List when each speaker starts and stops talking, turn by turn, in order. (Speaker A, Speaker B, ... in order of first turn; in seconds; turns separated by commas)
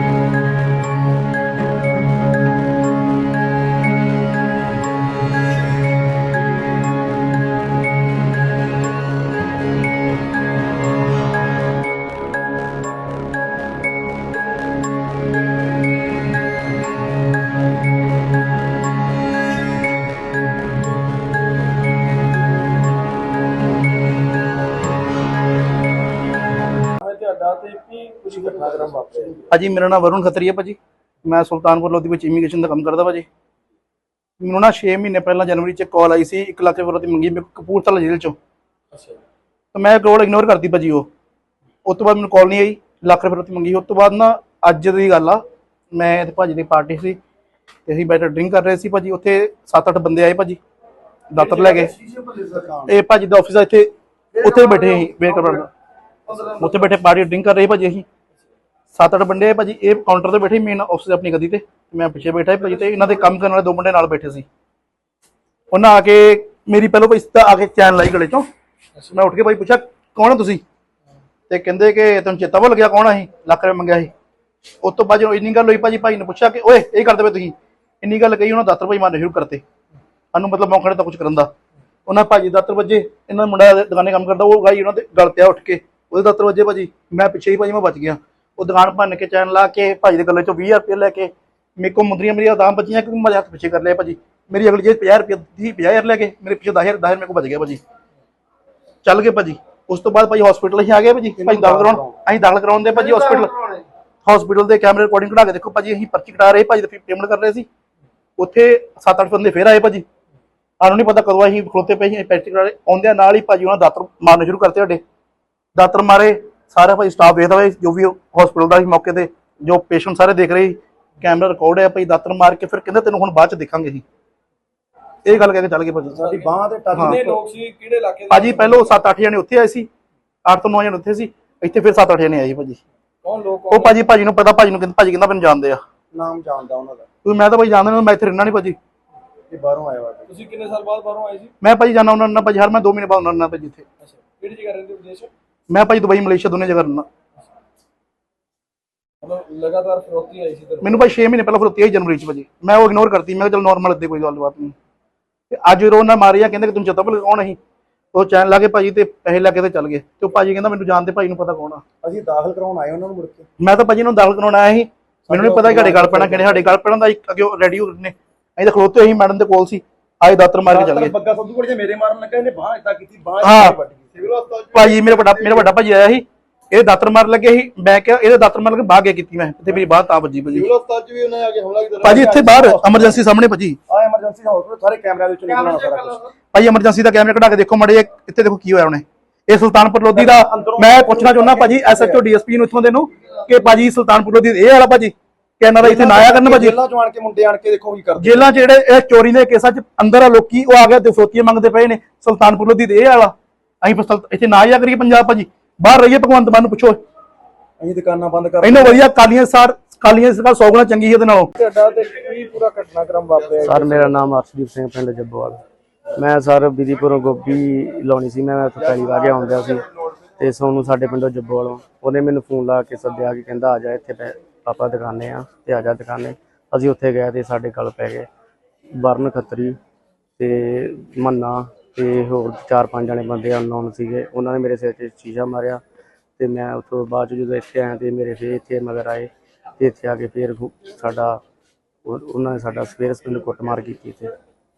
Speaker A: 27.0-29.4, Speaker B: 28.3-29.4, Speaker C: 29.5-33.3, Speaker C: 34.4-38.4, Speaker A: 38.9-39.2, Speaker C: 39.7-41.1, Speaker C: 41.9-45.4, Speaker C: 45.9-47.2, Speaker C: 47.9-50.6, Speaker C: 51.3-51.9, Speaker B: 51.4-53.0, Speaker C: 52.9-53.9, Speaker B: 54.4-55.6, Speaker C: 54.4-55.7, Speaker B: 56.3-56.9, Speaker C: 56.3-58.0, Speaker C: 58.9-64.5, Speaker C: 65.7-68.5, Speaker C: 69.1-70.6, Speaker C: 71.5-74.1, Speaker C: 74.8-79.6, Speaker C: 80.3-81.5, Speaker C: 82.1-97.8, Speaker C: 99.0-103.5, Speaker B: 101.4-102.2, Speaker C: 104.2-107.7, Speaker C: 108.4-110.0, Speaker C: 110.8-115.0, Speaker C: 115.8-124.0, Speaker C: 125.3-126.2, Speaker B: 126.0-127.4, Speaker A: 126.2-129.0, Speaker C: 126.9-127.2, Speaker C: 128.3-129.9, Speaker C: 130.4-132.8, Speaker A: 133.2-134.1, Speaker C: 133.7-135.8, Speaker B: 136.1-137.1, Speaker C: 137.2-138.8, Speaker B: 139.5-140.3, Speaker A: 140.3-141.5, Speaker C: 141.6-143.9, Speaker A: 144.0-145.3, Speaker C: 145.7-147.1, Speaker A: 149.2-151.1, Speaker C: 150.8-154.7, Speaker C: 155.5-157.6, Speaker C: 158.1-161.8, Speaker B: 162.0-163.5, Speaker C: 163.6-171.1, Speaker B: 165.3-166.7, Speaker B: 170.7-174.9, Speaker C: 173.4-173.8, Speaker C: 174.7-180.7, Speaker B: 180.5-183.2, Speaker C: 182.0-183.8, Speaker B: 183.9-186.3, Speaker C: 186.5-196.8, Speaker B: 190.1-192.2, Speaker B: 195.8-198.5, Speaker C: 198.2-207.0, Speaker B: 207.8-209.0, Speaker C: 208.6-211.5, Speaker A: 211.6-214.1, Speaker D: 213.6-215.6, Speaker D: 216.2-219.8, Speaker D: 220.4-228.3, Speaker D: 229.0-229.8, Speaker D: 230.4-235.8, Speaker D: 236.4-241.4, Speaker D: 242.1-244.3